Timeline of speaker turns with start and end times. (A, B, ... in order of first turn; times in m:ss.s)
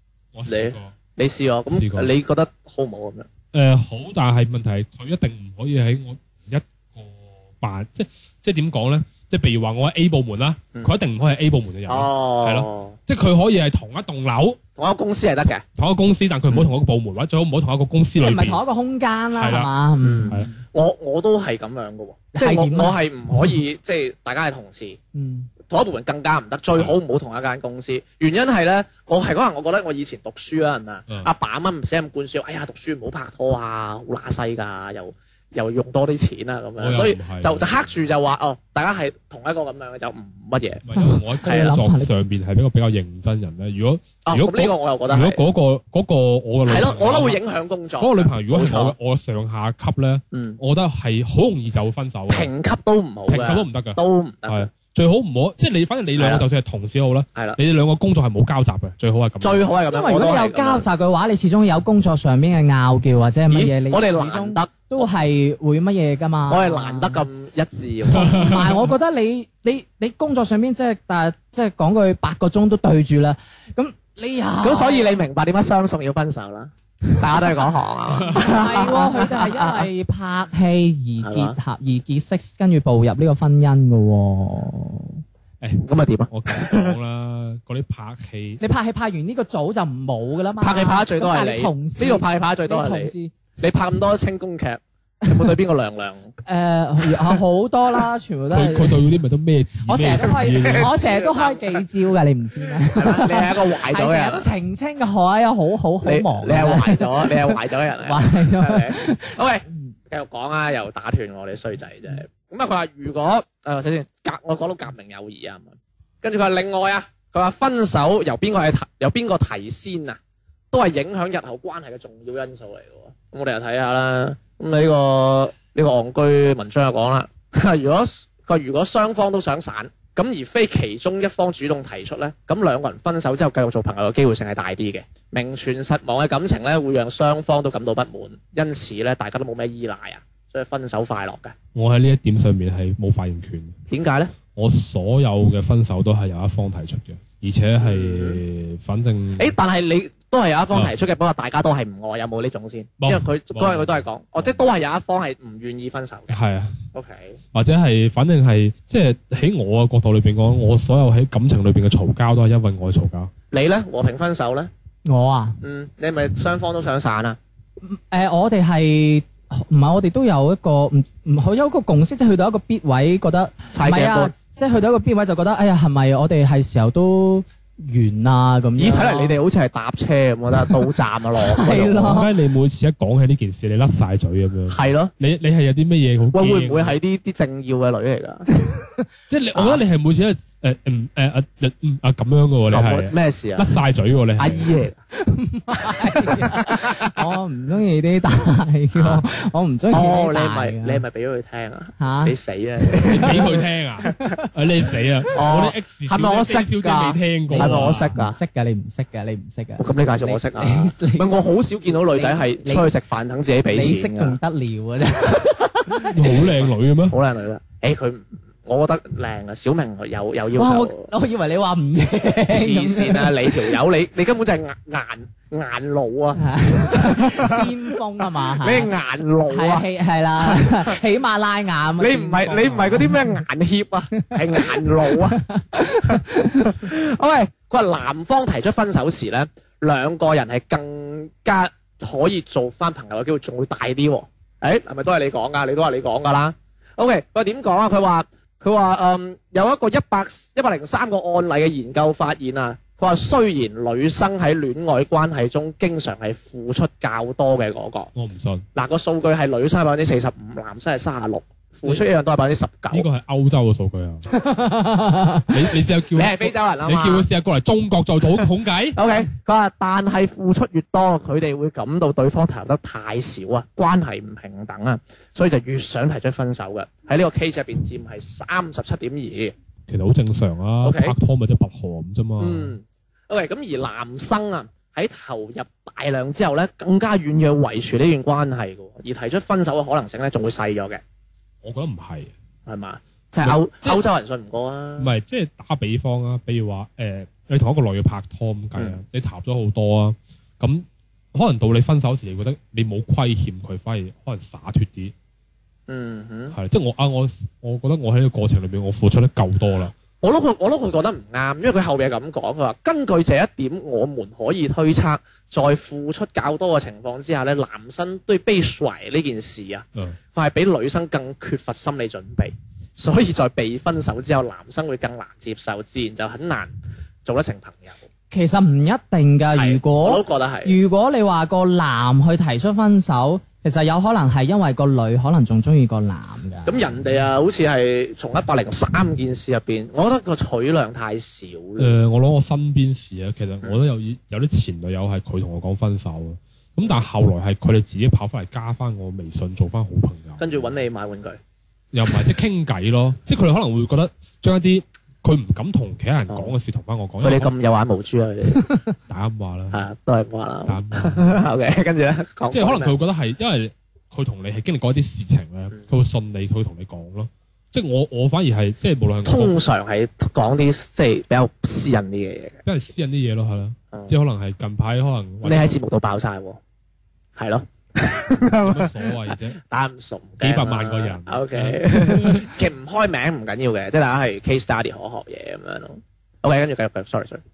0:00.3-0:00.9 A
0:00.5-0:03.3 B
0:01.7-0:02.1 A
0:03.5-0:14.6 A
0:11.9-0:13.0 B
0:14.8-0:15.6 B
0:15.8-0:18.6 A
0:18.2-0:20.6 C
0:19.4-0:19.7 A
0:20.0-0:25.0 B
0:22.3-0:23.0 C
0:25.1-0:25.5 C
0:25.7-0:40.8 B
0:36.8-0:37.9 A
0:40.8-0:47.4 A
0:41.0-0:42.1 C
0:41.4-0:41.8 B
0:44.2-0:45.4 B
0:46.7-0:49.0 B
0:48.0-0:52.5 A
0:50.3-0:50.6 B
0:52.3-0:54.7 B
0:53.3-0:59.7 A
0:56.2-0:56.5 B
0:59.4-1:00.8 B
0:59.9-1:07.2 C
1:03.5-1:04.8 B
1:06.5-1:08.6 B
1:08.1-1:15.1 C
1:08.1-1:08.9 A
1:14.6-1:19.9 B
1:18.1-1:18.5 A
1:18.4-1:25.2 C
1:21.2-1:21.6 B
1:25.6-1:28.6 A
1:25.8-1:27.0 B
1:28.6-1:33.3 C
1:30.6-1:36.3 B
1:35.2-1:35.5 C
1:36.5-1:39.0 C
1:38.5-1:40.9 A
1:39.8-1:49.9 C
1:40.4-1:41.8 B
1:42.8-1:44.5 B
1:46.0-1:55.7 B
1:56.2-2:00.2 B
2:00.7-2:21.5 B
2:21.7-2:23.8 A
2:23.9-2:24.3 B
2:24.6-2:29.5 A
2:27.8-2:28.4 B
2:29.4-2:36.4 B
2:33.0-2:34.6 A
2:36.3-2:36.8 A
2:36.9-2:37.4 B
2:37.5-2:43.3 A
2:43.5-2:44.7 B
2:45.1-2:45.6 C
2:45.6-2:47.4 B
2:47.8-2:59.4 C
2:53.7-2:54.3 B
2:58.8-3:02.2 B
3:01.4-3:02.3 C
3:02.0-3:07.0 A
3:04.7-3:05.1 B
3:06.3-3:08.5 B
3:08.6-3:09.0 C
3:09.3-3:14.7 A
3:09.5-3:09.8 B
3:12.7-3:13.7 B
3:14.4-3:15.0 B
3:15.1-3:21.0 C
3:15.9-3:17.0 B
3:19.0-3:19.2 B
3:19.9-3:23.6 B
3:22.0-3:22.3 C
3:23.0-3:28.2 A
3:25.3-3:28.4 B
3:27.5-3:31.3 C
3:29.8-3:34.4 B
3:32.1-3:32.9 C
3:33.7-3:36.2 C
3:36.1-3:37.2 A
3:36.2-3:41.1 B
3:40.6-3:43.8 C
3:42.5-3:47.7 B
3:46.4-3:48.9 C
3:48.6-3:49.9 B
3:49.5-3:53.4 C
3:50.4-3:51.0 B
3:52.0-4:18.1 B
3:54.2-3:56.9 C
4:18.2-4:18.6 A
4:18.8-4:23.1 B
4:22.9-4:24.2 A
4:24.3-4:25.5 C
4:25.5-4:29.0 A
4:26.1-4:27.3 B
4:29.0-4:39.5 B
4:39.9-4:42.8 A
4:40.8-4:41.2 B
4:42.4-4:51.0 B
4:51.6-4:52.3 A
4:52.7-4:55.1 B
4:53.4-4:54.0 A
4:55.0-5:05.1 A
5:05.9-5:06.6 B
5:06.5-5:09.9 A
5:10.2-5:26.7 B
5:27.2-5:28.0 B
5:28.3-5:36.8 C
5:29.6-5:30.8 B
5:36.7-5:41.9 B
5:41.8-5:50.8 A
5:50.4-5:51.4 B
5:51.9-5:57.5 A
5:56.3-5:56.5 B
5:57.2-5:58.7 B
5:59.1-5:59.8 A
5:59.7-6:03.0 B
6:00.7-6:01.4 A
6:02.5-6:09.6 A
6:09.2-6:12.6 B
6:12.6-6:15.8 A
6:15.4-6:16.6 B
6:17.4-6:27.4 B
6:18.5-6:19.6 A
6:20.4-6:22.5 A